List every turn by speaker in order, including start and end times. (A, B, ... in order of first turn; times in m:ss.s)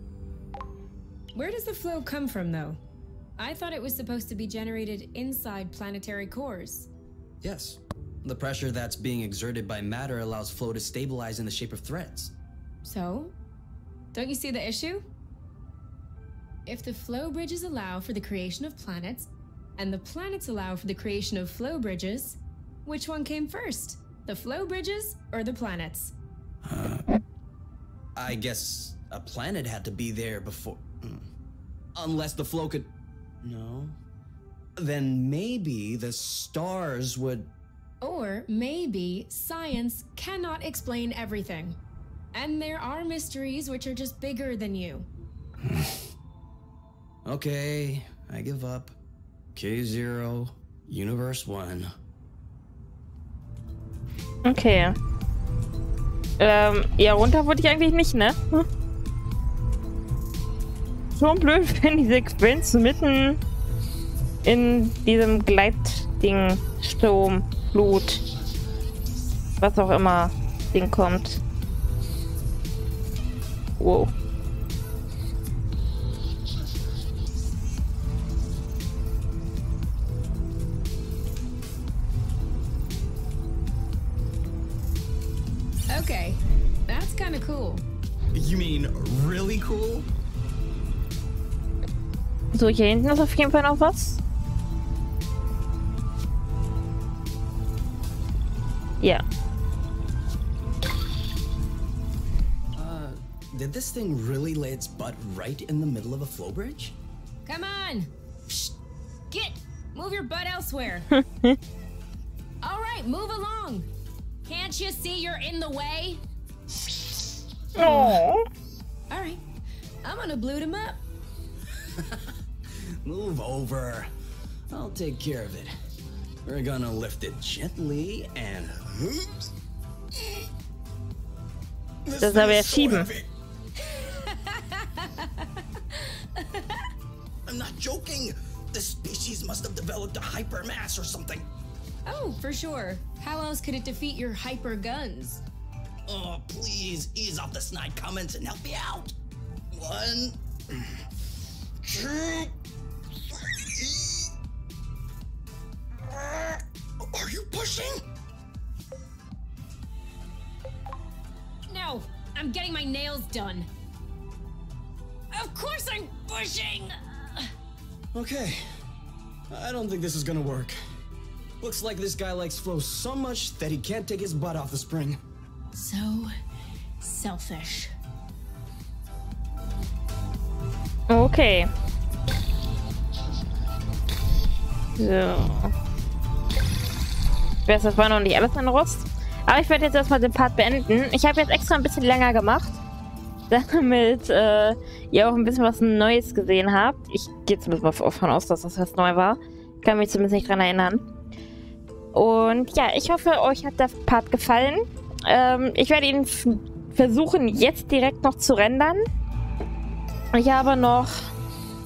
0:01.3-0:02.8 A
0:03.4-0:06.9 A
0:07.4-0:12.3 B
0:12.8-0:13.3 A
0:14.1-0:15.0 A
0:16.6-0:26.1 A
0:26.6-0:27.0 B
0:28.2-0:31.3 B
0:32.0-0:32.9 B
0:33.4-0:34.0 B
0:34.8-0:37.5 B
0:38.0-0:41.8 A
0:42.3-0:45.1 A
0:45.6-0:46.1 B
0:47.2-0:48.9 B
0:49.5-0:51.9 B
0:54.4-0:55.0 C
0:56.4-0:58.7 C
1:01.1-1:03.4 C
1:04.4-1:08.2 C
1:09.6-1:11.4 C
1:13.8-1:14.1 C
1:25.9-1:27.8 A
1:28.3-1:30.1 B
1:32.5-1:34.2 C
1:42.7-1:47.0 B
1:47.4-1:48.7 A
1:49.3-1:51.1 A
1:51.1-1:51.6 C
1:52.6-1:53.9 A
1:54.4-1:56.2 A
1:57.8-1:58.2 A
1:57.8-1:58.4 C
1:59.1-1:59.4 A
2:00.0-2:01.0 A
2:01.8-2:04.1 B
2:04.7-2:05.7 B
2:06.4-2:09.5 B
2:10.1-2:10.4 B
2:12.0-2:13.3 B
2:12.2-2:13.1 C
2:13.8-2:16.9 A
2:17.4-2:21.5 B
2:22.0-2:25.4 A
2:26.0-2:29.1 B
2:29.7-2:31.0 B
2:31.8-2:32.5 B
2:33.3-2:34.3 B
2:36.0-2:38.0 B
2:41.7-2:43.7 A
2:45.3-2:47.5 A
2:48.1-2:48.6 B
2:49.5-2:50.8 B
2:51.6-2:55.2 B
2:55.7-2:56.4 A
2:57.0-2:57.9 A
3:01.1-3:01.7 C
3:05.0-3:05.7 C
3:07.6-3:12.8 C
3:13.5-3:21.0 C
3:22.1-3:29.0 C
3:30.3-3:31.3 C